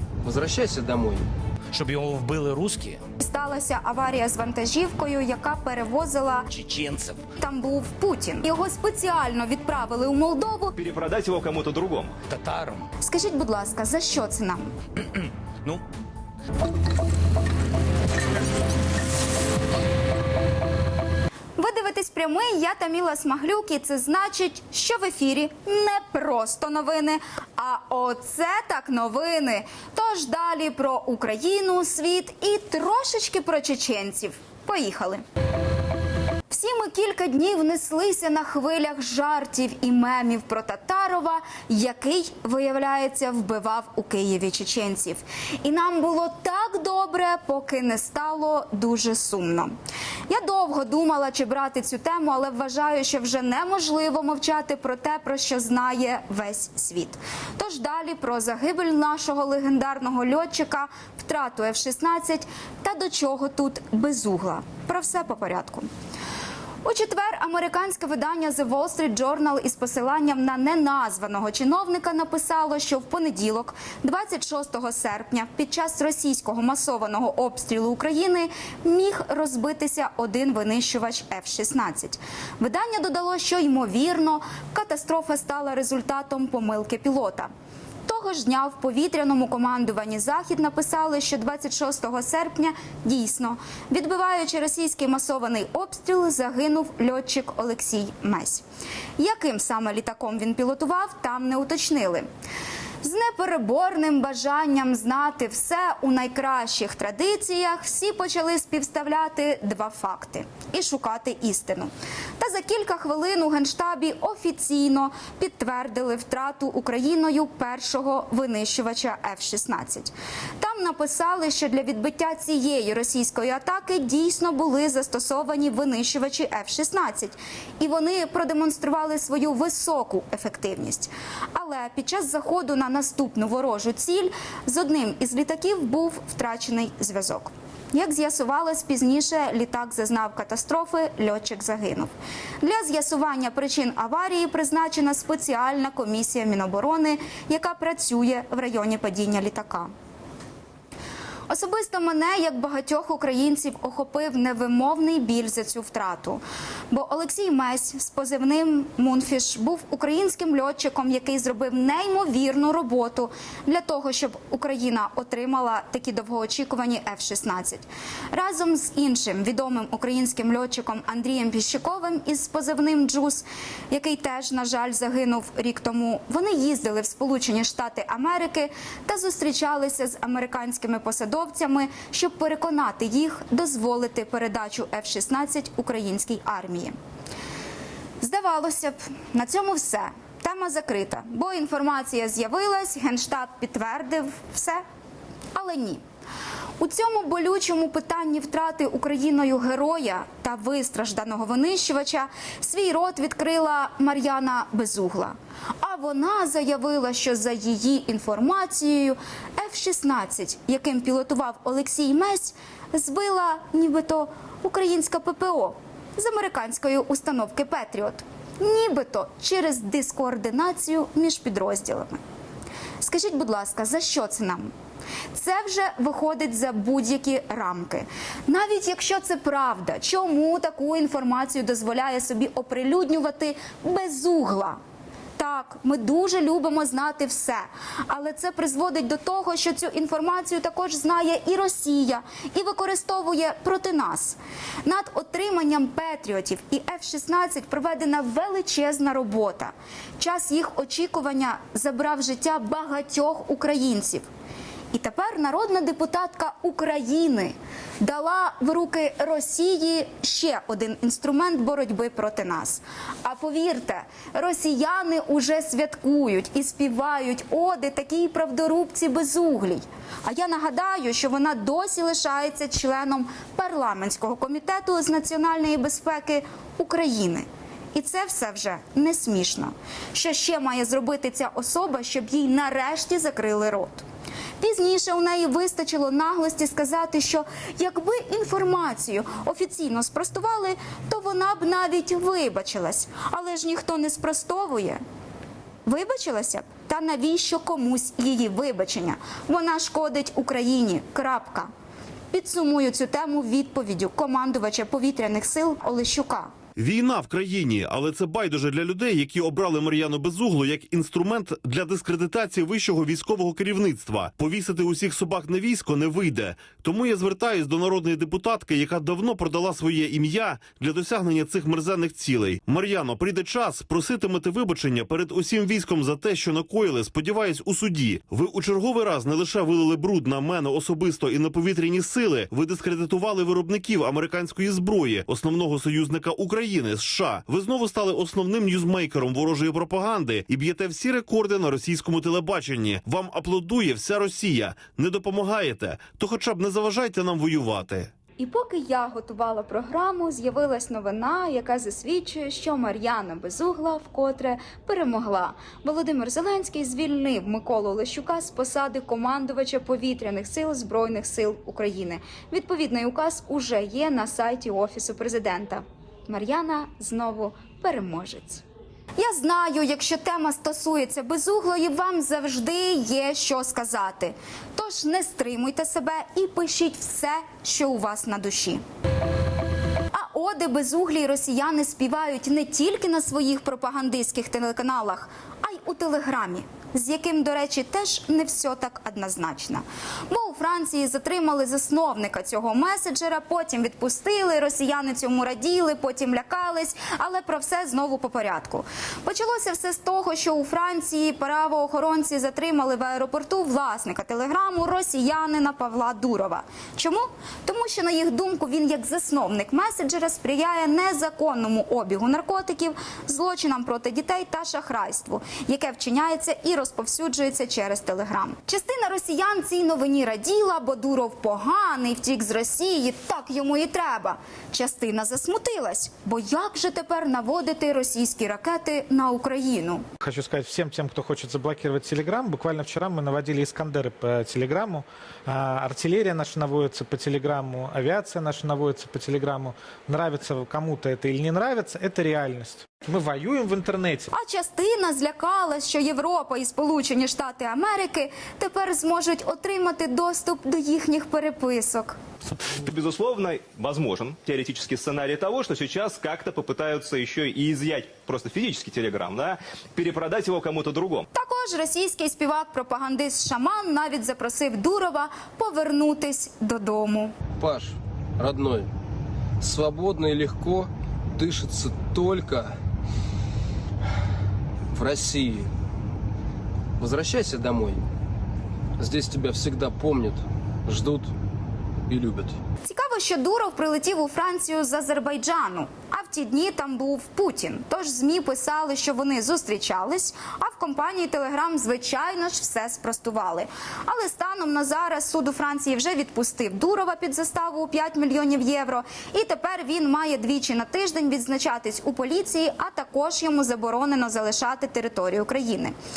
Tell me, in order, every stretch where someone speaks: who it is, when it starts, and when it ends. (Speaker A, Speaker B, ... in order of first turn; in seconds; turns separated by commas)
Speaker A: 0.2-1.3, Speaker B: 1.7-3.0, Speaker C: 3.2-6.5, Speaker B: 6.5-7.2, Speaker C: 7.4-10.7, Speaker D: 10.8-12.1, Speaker B: 12.3-12.9, Speaker C: 13.0-14.7, Speaker B: 15.2-15.8, Speaker C: 21.6-35.2, Speaker C: 36.5-49.7, Speaker C: 50.3-65.9, Speaker C: 66.8-87.5, Speaker C: 88.1-98.6, Speaker C: 99.2-102.3, Speaker C: 103.0-142.1, Speaker C: 142.6-149.9, Speaker C: 151.5-187.0, Speaker C: 188.2-194.8, Speaker C: 195.6-196.0, Speaker C: 196.8-222.2, Speaker C: 223.0-224.7, Speaker C: 225.3-234.8, Speaker C: 235.4-254.3, Speaker C: 254.9-284.1, Speaker C: 284.6-295.0, Speaker C: 295.9-301.7, Speaker C: 302.3-306.5, Speaker E: 306.8-348.1, Speaker C: 348.4-368.6, Speaker C: 369.2-378.8, Speaker C: 380.1-430.1, Speaker F: 430.2-444.3, Speaker C: 444.3-452.2, Speaker D: 452.8-461.3, Speaker C: 461.3-467.3, Speaker A: 467.6-468.9, Speaker A: 469.6-472.7, Speaker A: 474.9-475.7, Speaker A: 477.0-478.0, Speaker A: 479.0-481.3, Speaker A: 482.1-482.6, Speaker C: 482.8-505.9